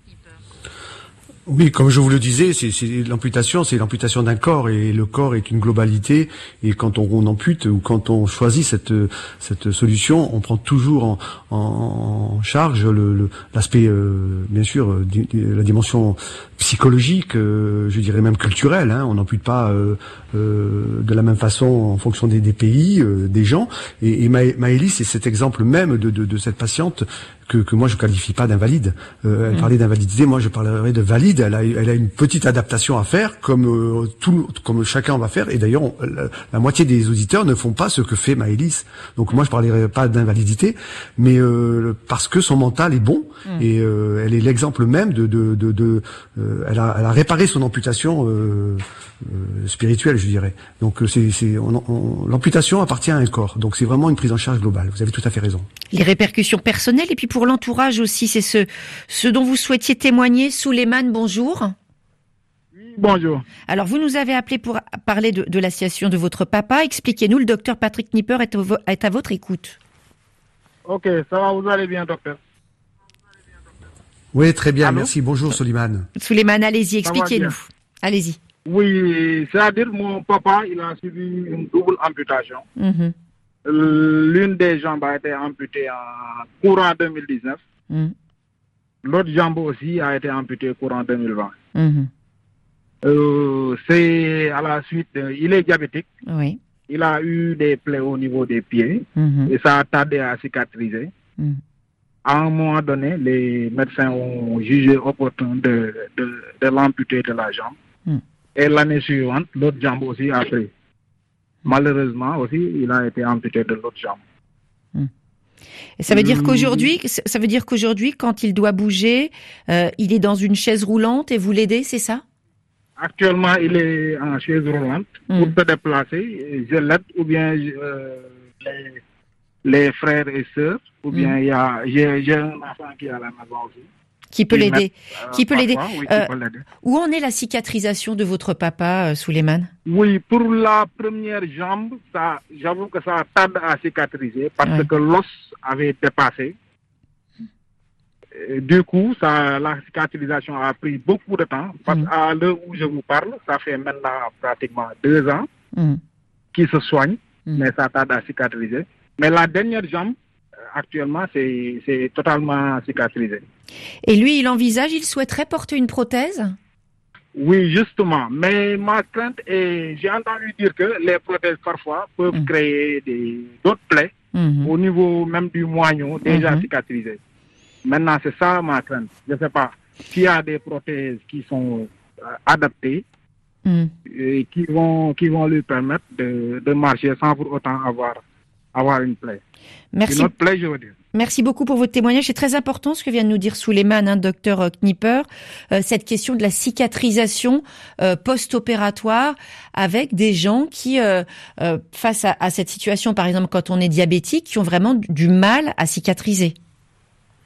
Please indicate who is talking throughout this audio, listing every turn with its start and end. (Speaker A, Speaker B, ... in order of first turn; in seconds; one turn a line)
Speaker A: 1.4-55.7
Speaker B: 55.9-61.7
Speaker C: 62.7-63.4
Speaker B: 63.7-69.8
Speaker C: 70.8-72.4
Speaker A: 74.3-76.1
Speaker B: 76.2-78.4
Speaker C: 77.0-77.5
Speaker C: 78.7-82.6
Speaker B: 82.8-83.1
Speaker C: 83.7-87.6
Speaker C: 89.0-91.5
Speaker B: 91.7-92.1
Speaker C: 93.0-96.0
Speaker B: 96.3-96.6
Speaker C: 96.9-101.1
Speaker B: 99.2-99.5
Speaker C: 102.2-107.7
Speaker C: 108.5-110.7
Speaker C: 111.7-114.2
Speaker B: 116.0-122.2
Speaker C: 116.1-116.9
Speaker C: 123.0-129.0
Speaker C: 129.6-133.8
Speaker B: 134.3-136.3
Speaker C: 134.5-136.6
Speaker B: 136.8-139.7
Speaker C: 139.8-146.5
Speaker C: 148.4-155.5
Speaker B: 155.7-156.0
Speaker C: 156.5-160.1
Speaker C: 160.7-163.4
Speaker B: 164.0-166.6
Speaker C: 167.3-174.1
Speaker B: 174.3-174.7
Speaker C: 174.6-177.2
Speaker B: 176.3-176.7
Speaker C: 177.8-183.0
Speaker B: 183.7-183.9
Speaker C: 184.1-188.2
Speaker C: 188.7-189.4
Speaker B: 189.9-190.3
Speaker C: 190.1-190.9
Speaker B: 191.1-206.5